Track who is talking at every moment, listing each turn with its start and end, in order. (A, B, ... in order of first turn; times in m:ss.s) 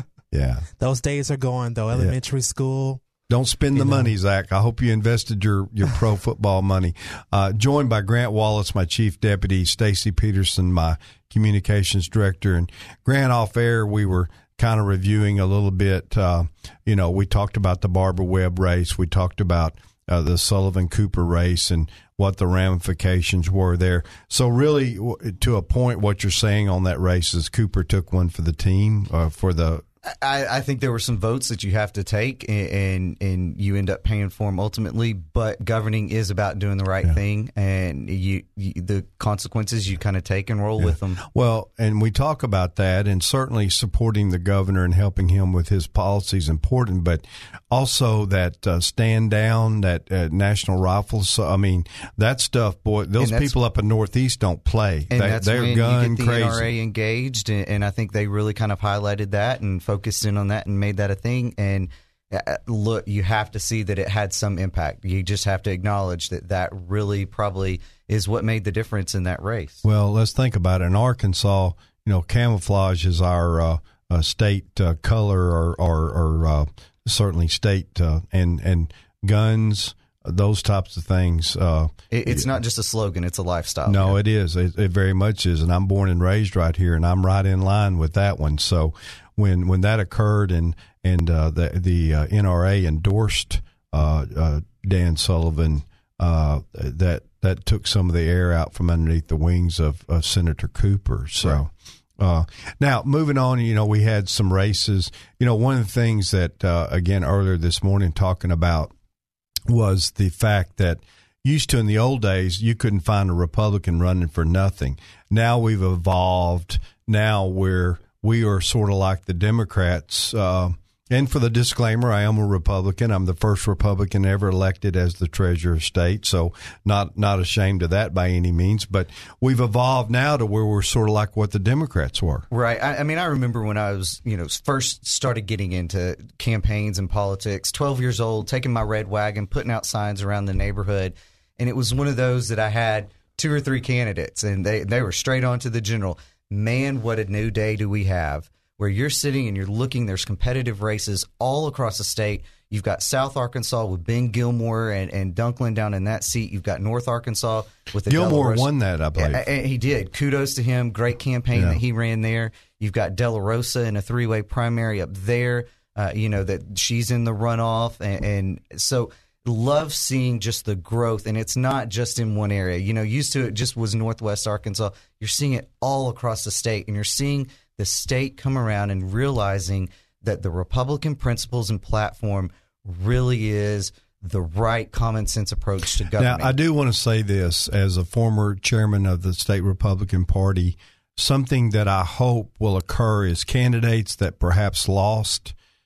0:00.3-0:00.7 A
0:00.8-0:03.0 B
0:03.3-0:29.8 A
0:03.8-0:04.1 B
0:30.0-0:41.2 C
0:40.8-0:56.7 A
0:53.2-0:53.6 C
0:55.1-1:09.8 C
1:09.8-1:22.6 A
1:22.1-1:24.2 C
1:23.9-1:48.9 A
1:49.7-2:12.5 A
2:12.5-3:06.6 C
2:38.1-2:39.5 A
2:41.5-2:41.8 A
3:06.1-3:15.6 A